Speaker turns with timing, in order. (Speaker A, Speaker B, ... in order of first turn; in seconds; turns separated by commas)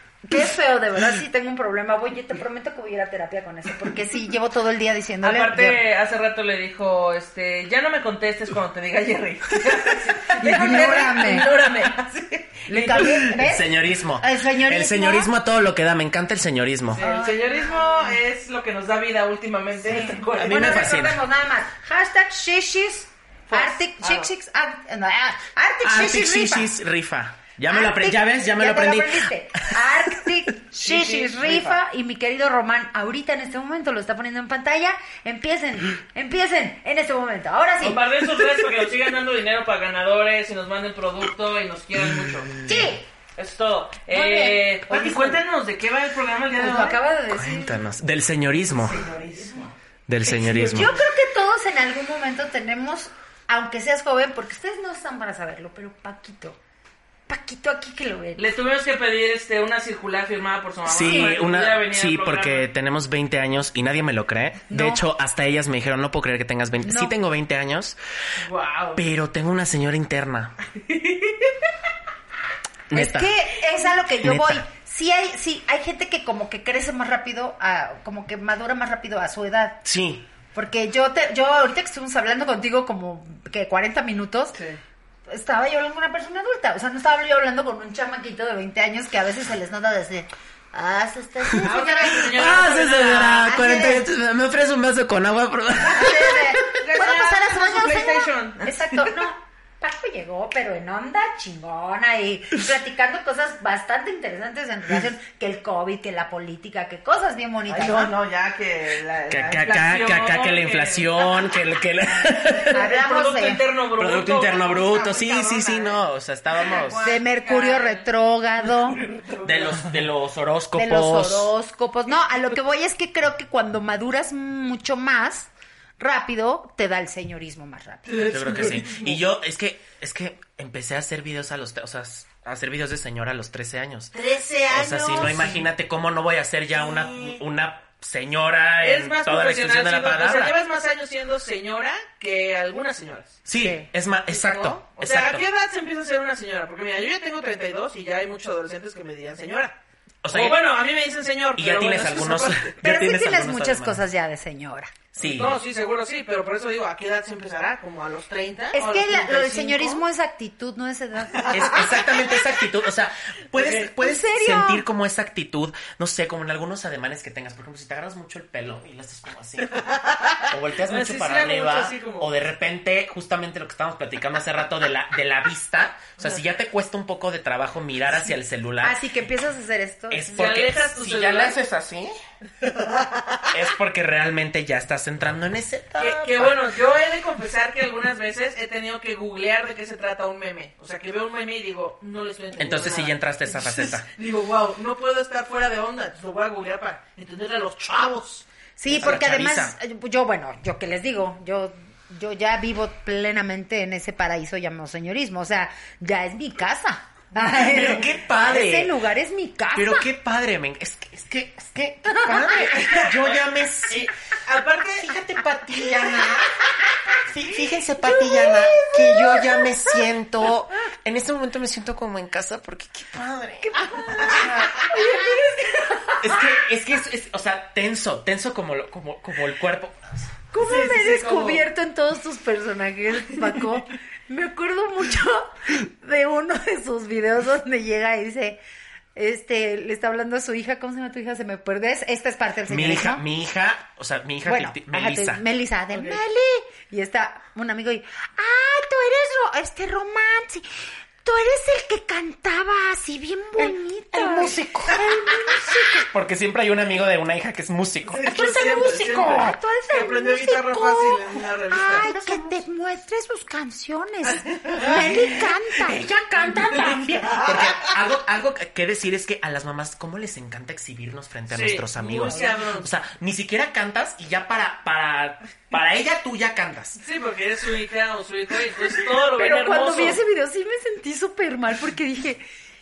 Speaker A: 0.2-5.8, Speaker B: 5.2-13.3, Speaker A: 10.3-11.5, Speaker A: 12.7-15.3, Speaker C: 13.0-17.0, Speaker B: 17.0-21.0, Speaker A: 17.0-18.2, Speaker A: 19.8-26.7, Speaker C: 20.4-21.2, Speaker B: 23.5-24.3, Speaker C: 25.8-30.3, Speaker A: 27.7-38.2, Speaker B: 30.9-31.8, Speaker B: 37.8-42.6, Speaker C: 42.6-42.9, Speaker A: 42.6-43.1, Speaker B: 43.4-47.0, Speaker A: 44.1-45.4, Speaker A: 46.5-47.8, Speaker C: 47.3-49.0, Speaker B: 48.9-49.7, Speaker A: 48.9-49.5, Speaker C: 50.1-50.9, Speaker B: 50.2-51.0, Speaker A: 50.7-56.6, Speaker A: 57.3-58.5, Speaker B: 58.4-62.7, Speaker C: 60.9-68.0, Speaker A: 61.0-61.3, Speaker A: 64.7-65.0, Speaker A: 66.8-67.1, Speaker B: 68.4-69.0, Speaker C: 69.0-70.5, Speaker B: 70.8-71.6, Speaker C: 72.9-73.3, Speaker A: 72.9-79.8, Speaker C: 74.2-74.7, Speaker C: 79.8-80.3, Speaker A: 80.5-84.6, Speaker A: 85.3-92.2, Speaker B: 91.6-93.5, Speaker C: 92.2-96.7, Speaker A: 93.3-94.0, Speaker A: 95.9-108.1, Speaker B: 96.0-98.7, Speaker B: 107.7-111.5, Speaker C: 109.3-112.7, Speaker B: 112.6-116.0, Speaker A: 112.7-113.6, Speaker C: 114.0-117.0, Speaker B: 116.5-118.0, Speaker A: 117.0-119.0, Speaker B: 118.9-119.8, Speaker C: 119.4-121.5, Speaker A: 120.8-128.7, Speaker B: 128.1-129.1, Speaker C: 128.3-134.2, Speaker B: 134.1-135.7, Speaker C: 134.7-140.6, Speaker B: 136.8-137.4, Speaker B: 138.8-143.4, Speaker C: 143.5-145.4, Speaker A: 143.6-143.9, Speaker B: 144.3-149.8, Speaker C: 150.2-150.6, Speaker B: 150.3-152.7, Speaker C: 151.6-154.0, Speaker A: 152.8-154.9, Speaker C: 155.2-155.6, Speaker B: 155.2-160.0, Speaker A: 158.7-161.8, Speaker C: 161.5-169.8, Speaker A: 163.7-164.8, Speaker B: 169.7-172.3, Speaker C: 170.5-179.0, Speaker A: 178.8-180.7, Speaker C: 180.1-182.2, Speaker B: 180.3-181.6, Speaker B: 183.2-183.4, Speaker C: 183.5-186.6, Speaker B: 186.0-198.5, Speaker C: 192.6-194.1, Speaker A: 198.8-210.1, Speaker C: 198.9-199.7, Speaker C: 207.4-209.0, Speaker C: 209.7-214.1, Speaker A: 212.1-212.7, Speaker B: 212.7-213.3, Speaker B: 213.9-215.1, Speaker C: 215.0-216.4, Speaker B: 215.7-216.6, Speaker C: 217.2-225.4, Speaker A: 218.1-219.6, Speaker A: 223.6-226.4, Speaker B: 223.9-224.8, Speaker C: 226.1-230.3, Speaker A: 230.5-238.6, Speaker B: 230.6-231.6, Speaker A: 239.2-243.2, Speaker C: 242.7-245.4, Speaker A: 244.4-250.7, Speaker B: 245.9-246.2, Speaker A: 251.2-256.1, Speaker C: 253.6-259.5, Speaker B: 258.1-262.1, Speaker A: 258.8-266.0, Speaker C: 262.1-262.4, Speaker B: 264.3-265.0, Speaker C: 264.9-277.0, Speaker B: 266.4-267.9, Speaker B: 271.5-272.9, Speaker B: 277.0-280.2, Speaker A: 279.4-282.4